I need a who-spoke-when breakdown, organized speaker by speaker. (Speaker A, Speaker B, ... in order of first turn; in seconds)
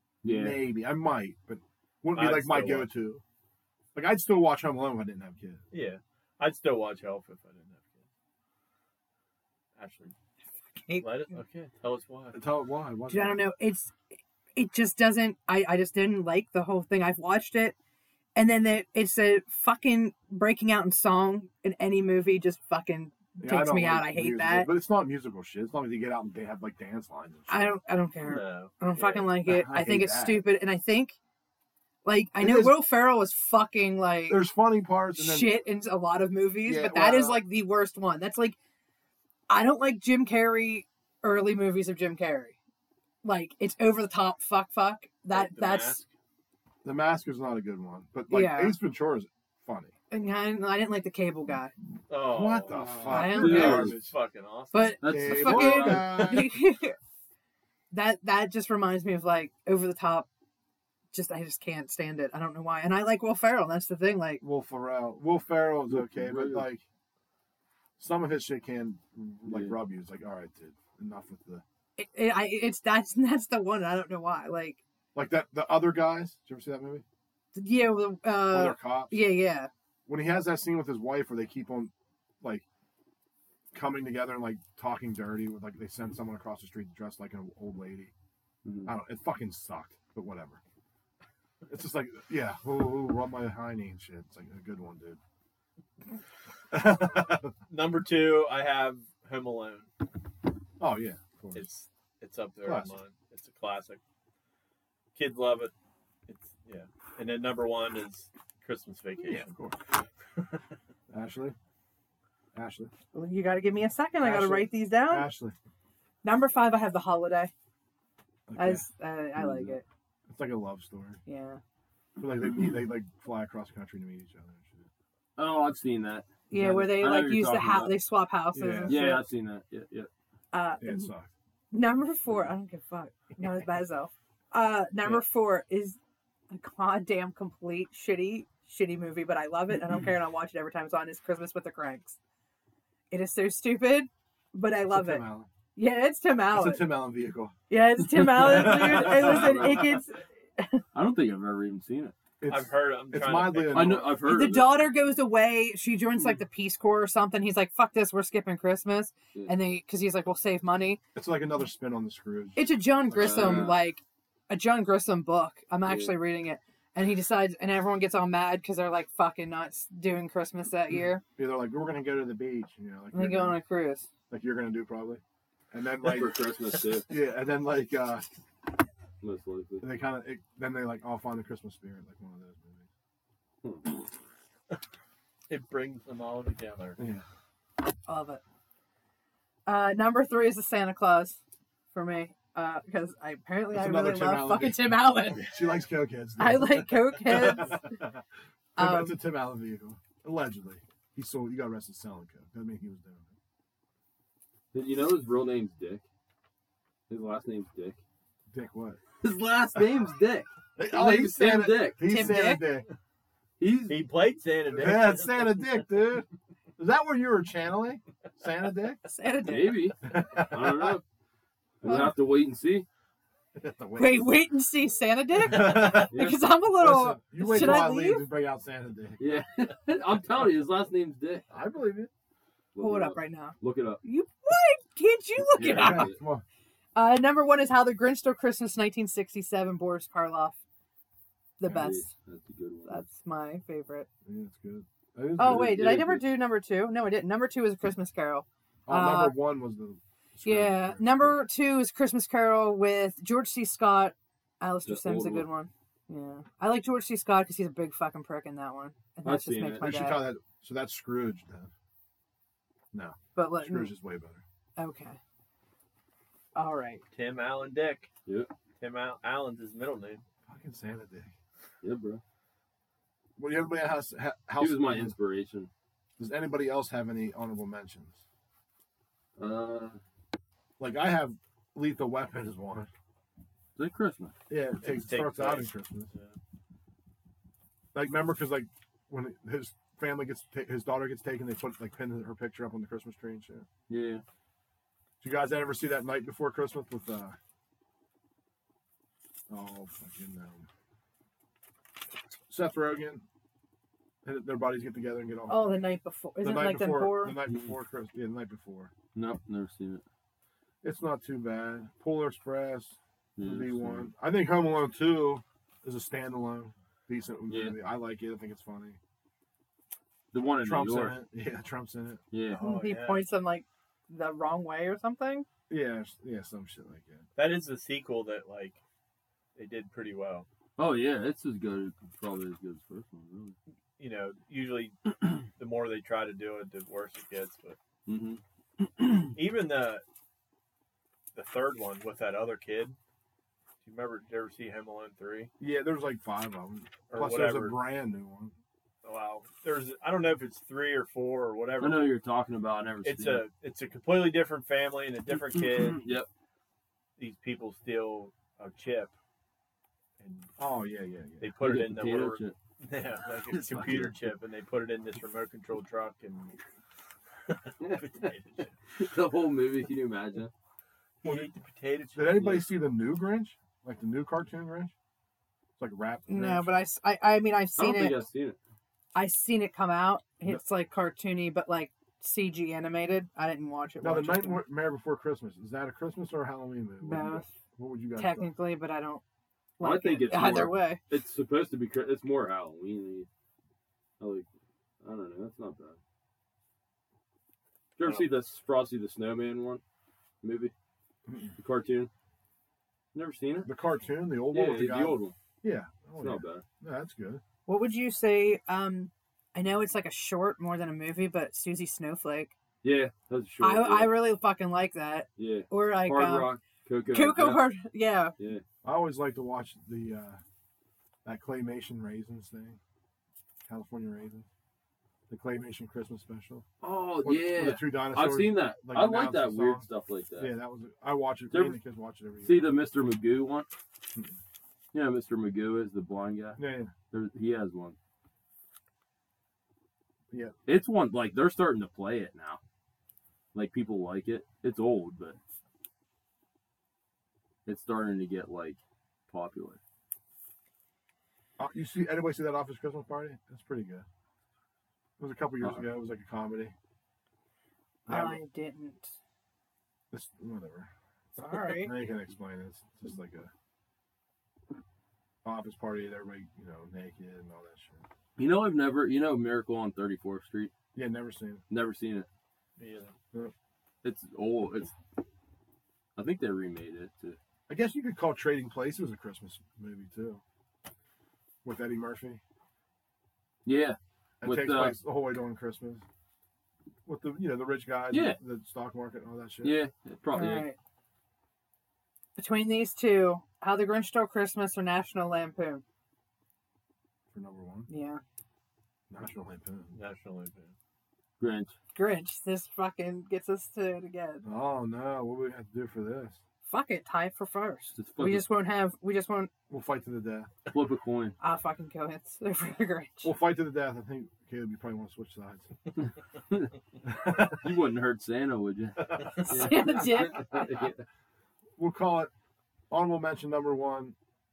Speaker A: 0.2-0.6, 52.7-54.0, 55.0-56.3, 65.9-66.7, 69.5-69.8, 88.6-88.9, 125.4-128.0, 128.9-130.1, 148.2-150.0, 150.9-152.1, 153.7-154.8, 163.2-163.8, 165.8-166.1, 176.0-177.1, 179.2-179.9, 183.6-184.0, 204.7-206.1, 207.1-208.0, 209.2-212.3, 213.6-214.0, 219.4-221.0, 221.8-222.9, 226.1-226.4, 229.2-231.5, 232.8-234.0, 235.5-236.2, 241.7-243.0, 245.4-246.2, 254.8-255.5, 259.2-259.9, 271.8-272.2, 274.6-275.7, 279.4-280.0, 283.8-284.4, 293.9-294.2, 309.1-310.0, 313.4-314.1, 317.5-317.8, 320.3-321.1, 322.3-322.6, 330.8-333.6, 338.1-339.3, 351.8-353.4, 355.5-356.3, 361.6-362.6, 363.5-364.1, 369.0-370.5, 377.8-378.6, 389.8-393.3, 394.2-394.5, 395.0-396.0, 398.0-399.8, 400.4-400.7, 401.6-402.1, 403.1-403.7, 404.5-405.4, 406.2-406.6, 412.8-414.2, 415.4-417.7, 418.4-418.6, 426.8-430.5, 431.5-431.8, 432.4-433.7, 434.9-438.0, 440.7-442.6, 443.5-445.4, 447.7-449.8, 455.6-455.9, 468.4-470.7, 471.7-472.3, 474.0-474.9, 476.1-477.4, 483.6-485.0, 488.1-488.4, 489.6-490.7, 501.4-501.7, 508.0-508.5, 510.7-511.4, 516.0-516.7, 517.5-521.0
Speaker B: 0.2-3.2, 4.0-5.6, 12.3-13.4, 23.4-27.8, 29.4-30.5, 32.4-32.8, 34.3-35.6, 36.6-37.5, 46.8-49.9, 52.2-54.1, 55.0-56.5, 64.4-66.8, 68.0-71.6, 75.2-77.0, 78.5-79.2, 80.1-82.6, 83.7-88.1, 88.8-90.6, 91.7-95.2, 96.7-97.5, 100.8-101.7, 102.6-103.0, 109.2-109.8, 111.1-111.6, 112.5-112.9, 114.2-115.5, 118.5-118.9, 120.3-121.2, 122.2-124.9, 126.5-126.8, 128.5-129.0, 130.8-131.3, 144.9-145.5, 146.5-147.5, 148.2-149.9, 152.4-154.1, 161.2-163.7, 171.4-173.6, 174.3-178.3, 179.8-182.9, 187.0-187.2, 193.7-198.2, 198.8-203.3, 208.5-209.0, 210.8-212.9, 214.7-216.3, 216.8-219.0, 220.1-221.0, 223.6-224.3, 225.4-229.2, 231.5-232.1, 235.6-236.4, 244.3-246.2, 248.9-251.4, 259.8-261.7, 262.9-264.4, 270.5-271.3, 273.4-275.1, 276.2-278.2, 280.8-282.9, 284.5-286.1, 287.9-293.7, 295.2-297.4, 299.5-300.7, 302.5-303.2, 304.2-305.7, 306.4-308.9, 310.8-319.0, 320.6-322.2, 325.7-327.2, 345.6-348.5, 360.6-361.5, 372.1-374.9, 375.8-376.7, 384.0-388.5, 401.3-401.5, 403.6-407.4, 418.8-420.4, 421.2-422.8, 423.7-424.5, 425.3-426.6, 427.2-429.9, 430.4-432.7, 436.6-436.9, 440.3-440.6, 451.6-454.1, 455.2-456.8, 458.1-458.4, 460.1-460.9, 461.5-463.5, 465.4-468.0, 470.9-471.6, 477.7-480.4, 481.6-482.4, 484.4-486.0, 487.1-489.8, 497.3-497.9, 499.1-499.9, 504.4-506.4, 509.7-510.5, 513.2-515.7, 517.1-517.7, 521.8-522.3, 522.9-524.1
Speaker C: 2.1-2.9, 5.7-8.0, 9.8-10.1, 11.0-12.4, 28.2-29.4, 45.3-46.1, 52.1-55.0, 97.7-99.9, 101.5-104.0, 105.2-105.7, 106.3-109.5, 152.5-154.1, 185.5-187.0, 213.9-215.8, 267.1-268.1, 268.8-270.2, 284.8-286.4, 322.5-323.3, 327.4-328.8, 329.6-330.5, 334.0-337.8, 339.4-340.0, 341.4-343.0, 343.8-345.5, 347.1-347.8, 349.0-352.1, 353.0-356.0, 357.2-359.1, 360.2-360.5, 361.4-366.6, 367.5-368.7, 371.2-372.7, 398.0-398.3, 472.8-473.1, 499.9-500.7
Speaker D: 13.1-14.0, 14.6-17.8, 18.4-24.7, 27.5-31.2, 32.0-34.5, 35.1-38.6, 39.5-42.5, 43.2-46.0, 48.3-48.8, 50.1-51.7, 53.1-53.9, 54.7-57.0, 57.9-60.3, 61.1-64.4, 72.0-74.8, 77.5-79.7, 113.1-115.3, 116.2-117.5, 118.6-119.8, 121.3-121.6, 126.5-129.2, 130.5-131.1, 131.7-136.0, 136.5-142.2, 143.1-146.9, 147.7-150.8, 154.2-161.0, 162.6-171.2, 173.1-174.1, 188.1-188.4, 189.7-191.4, 191.9-195.8, 196.4-198.0, 198.8-199.2, 212.0-212.7, 219.1-219.9, 221.8-222.1, 224.0-228.3, 232.8-236.2, 236.9-240.6, 241.6-242.1, 242.9-244.1, 245.4-249.4, 250.4-260.3, 263.4-263.9, 264.8-265.2, 266.6-267.0, 305.5-307.4, 322.6-325.5, 376.3-378.2, 379.1-384.6, 387.0-387.5, 388.2-389.2, 389.8-391.0, 407.7-412.5, 413.6-416.5, 417.1-418.3, 458.1-459.1, 461.4-461.9, 490.4-490.8, 492.4-495.8, 497.9-498.2, 501.9-504.4, 506.7-509.5, 511.4-513.3, 519.5-520.9